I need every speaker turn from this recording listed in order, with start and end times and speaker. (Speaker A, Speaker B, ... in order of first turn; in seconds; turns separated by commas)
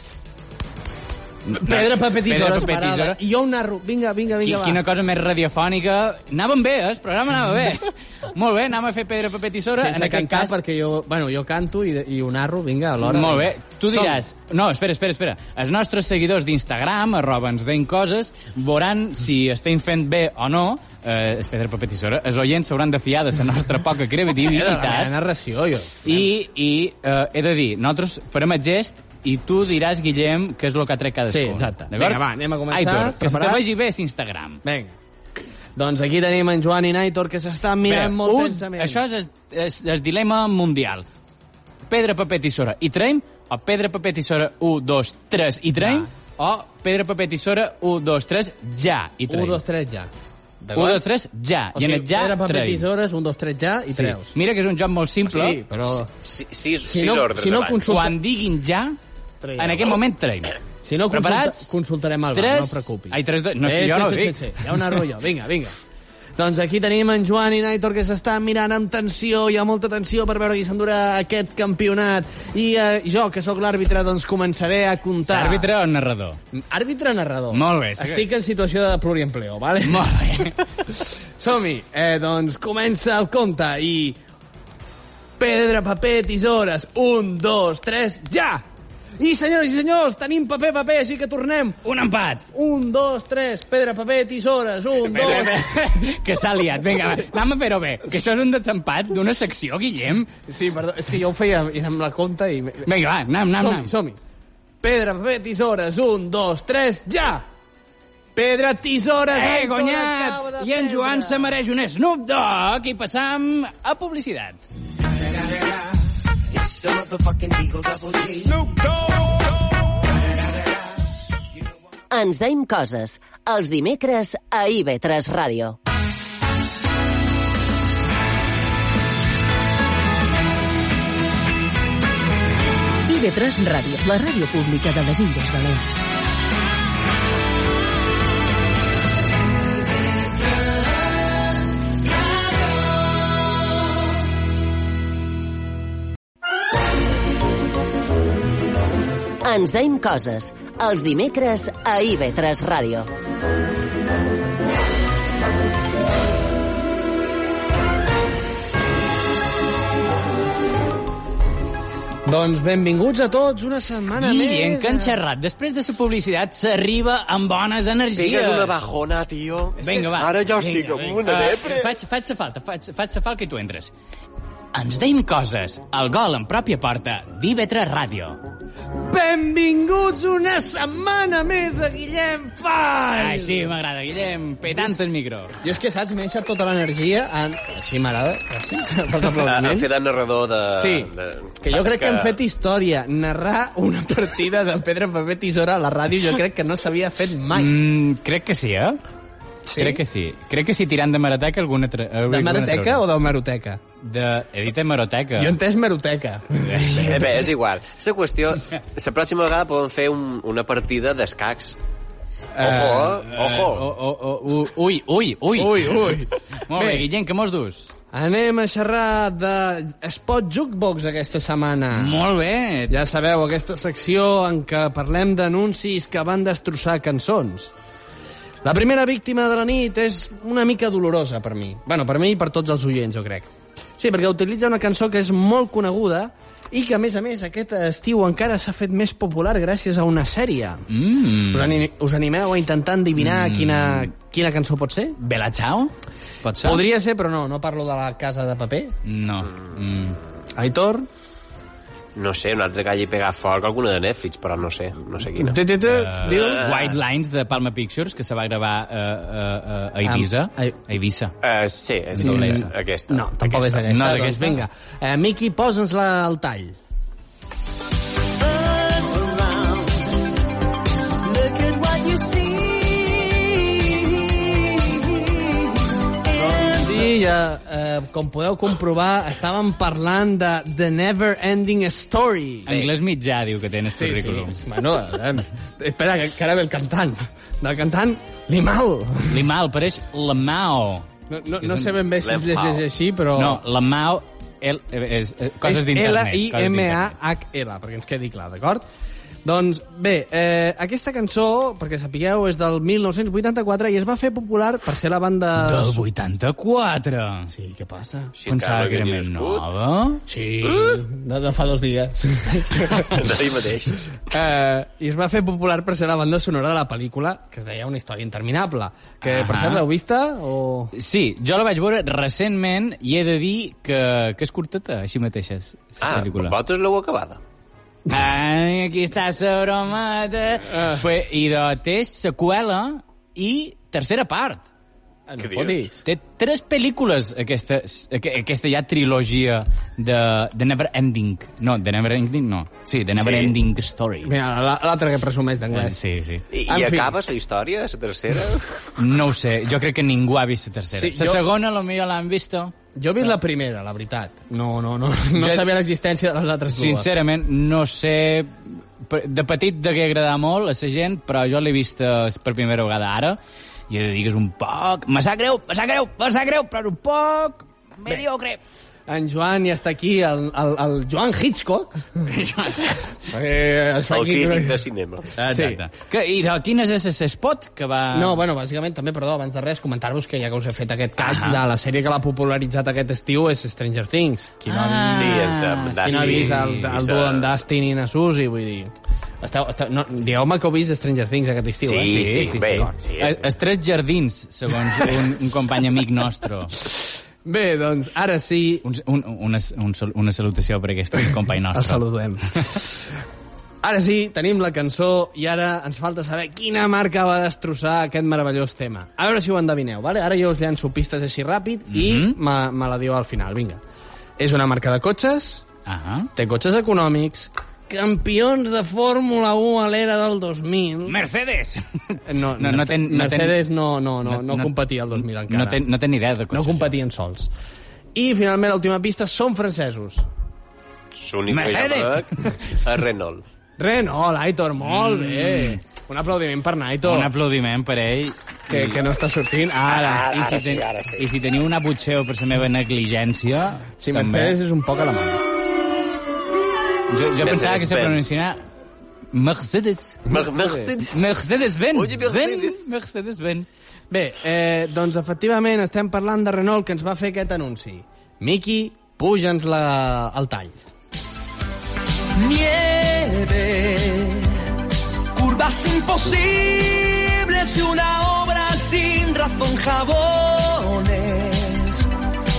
Speaker A: 1.4-3.2, Speaker B: 1.5-4.8, Speaker A: 4.4-10.5, Speaker B: 9.8-14.2, Speaker A: 13.0-25.1, Speaker B: 24.4-26.3, Speaker A: 26.0-34.6, Speaker B: 31.3-33.6, Speaker B: 34.6-34.9, Speaker B: 35.7-39.0, Speaker A: 37.9-41.0, Speaker A: 41.9-49.6, Speaker B: 45.8-46.1, Speaker B: 49.3-51.0, Speaker A: 50.7-52.8, Speaker B: 51.7-54.4, Speaker A: 53.9-55.6, Speaker B: 55.2-56.1, Speaker C: 56.2-58.0, Speaker B: 56.9-58.1, Speaker A: 57.9-59.0, Speaker B: 59.4-60.0, Speaker A: 59.6-60.5, Speaker B: 60.8-65.7, Speaker A: 61.1-61.7, Speaker A: 62.3-65.0, Speaker B: 66.3-75.7, Speaker A: 75.2-76.4, Speaker B: 76.5-80.1, Speaker A: 77.5-78.3, Speaker A: 79.8-80.6, Speaker B: 80.9-84.2, Speaker B: 85.4-88.6, Speaker B: 89.2-91.8, Speaker A: 91.8-92.4, Speaker B: 92.5-96.0, Speaker A: 95.0-100.3, Speaker B: 100.5-102.9, Speaker A: 102.8-103.9, Speaker B: 103.5-104.2, Speaker B: 104.8-107.5, Speaker B: 108.3-111.5, Speaker A: 109.3-114.6, Speaker D: 122.1-125.8, Speaker E: 133.1-136.1, Speaker D: 149.4-153.1, Speaker B: 162.2-165.2, Speaker A: 164.2-168.8, Speaker C: 168.1-171.9, Speaker A: 169.8-173.9, Speaker A: 174.7-178.4, Speaker B: 179.1-183.7, Speaker A: 183.2-185.5, Speaker B: 185.6-189.9, Speaker C: 189.4-192.4, Speaker B: 190.8-191.1, Speaker B: 191.6-197.8, Speaker A: 197.5-199.0, Speaker A: 199.7-203.0, Speaker B: 199.7-200.0, Speaker B: 202.3-203.8, Speaker A: 204.0-205.6, Speaker B: 205.4-207.1, Speaker A: 206.6-207.3, Speaker C: 206.9-211.8, Speaker B: 212.5-213.3, Speaker C: 212.6-213.9, Speaker A: 213.3-216.1, Speaker B: 215.5-217.1, Speaker A: 216.7-217.9, Speaker B: 218.1-222.3, Speaker A: 221.9-222.9, Speaker B: 222.9-227.7, Speaker B: 228.6-240.8, Speaker A: 240.9-241.8, Speaker B: 241.5-245.2, Speaker A: 243.2-244.1, Speaker A: 245.2-246.8, Speaker B: 246.6-248.9, Speaker A: 249.0-250.2, Speaker B: 250.6-251.1, Speaker C: 252.1-255.6, Speaker B: 255.3-256.7, Speaker A: 255.8-261.3, Speaker C: 256.2-257.0, Speaker B: 260.0-260.7, Speaker C: 261.4-263.9, Speaker A: 262.1-262.7, Speaker B: 262.2-266.8, Speaker A: 263.9-264.6, Speaker F: 268.6-269.8, Speaker F: 271.3-274.9, Speaker F: 276.3-276.8, Speaker B: 276.3-282.8, Speaker A: 282.7-284.6, Speaker B: 283.9-289.4, Speaker A: 289.3-291.1, Speaker B: 291.3-293.6, Speaker A: 291.6-292.0, Speaker C: 292.2-292.8, Speaker A: 293.3-297.1, Speaker B: 295.6-298.9, Speaker B: 299.4-306.0, Speaker A: 305.6-307.5, Speaker B: 307.5-308.3, Speaker C: 308.4-309.7, Speaker A: 308.5-310.2, Speaker B: 310.3-313.3, Speaker C: 310.7-311.0, Speaker C: 313.1-314.0, Speaker B: 314.2-320.9, Speaker A: 319.2-319.8, Speaker A: 320.9-326.5, Speaker C: 326.0-327.4, Speaker A: 328.1-334.6, Speaker B: 330.7-331.0, Speaker B: 335.3-336.0, Speaker C: 335.4-335.9, Speaker A: 336.0-344.3, Speaker C: 343.1-343.5, Speaker B: 344.2-346.0, Speaker A: 345.7-346.4, Speaker C: 346.5-348.7, Speaker B: 346.6-347.1, Speaker A: 349.0-352.7, Speaker B: 350.9-351.4, Speaker B: 352.9-357.1, Speaker A: 355.4-355.6, Speaker A: 356.7-363.4, Speaker A: 363.9-368.6, Speaker B: 369.1-372.4, Speaker A: 372.3-373.0, Speaker B: 373.1-374.8, Speaker C: 374.1-375.3, Speaker A: 375.4-378.4, Speaker B: 375.4-375.8, Speaker B: 378.1-392.7, Speaker A: 381.2-381.6, Speaker A: 384.6-386.9, Speaker C: 385.1-387.6, Speaker C: 391.9-393.5, Speaker A: 391.9-396.8, Speaker B: 397.4-398.8, Speaker A: 398.8-402.0, Speaker B: 401.7-402.9, Speaker B: 403.8-413.8, Speaker A: 411.9-412.4, Speaker B: 414.4-415.6, Speaker A: 415.9-416.3, Speaker B: 416.4-421.2, Speaker A: 421.0-423.6, Speaker B: 422.2-425.8, Speaker A: 424.2-424.7, Speaker A: 425.4-426.9, Speaker B: 426.5-427.5, Speaker B: 428.1-430.2, Speaker C: 431.1-433.4, Speaker A: 431.5-432.6, Speaker B: 433.8-437.3, Speaker A: 434.8-435.8, Speaker A: 437.0-439.0, Speaker B: 438.7-440.4, Speaker A: 439.9-444.6, Speaker C: 440.0-441.2, Speaker B: 444.0-445.4, Speaker A: 447.1-448.6, Speaker C: 447.4-448.4, Speaker A: 449.3-453.7, Speaker C: 450.2-451.4, Speaker C: 451.9-452.9, Speaker B: 454.1-460.8, Speaker F: 462.4-464.6, Speaker F: 465.3-472.0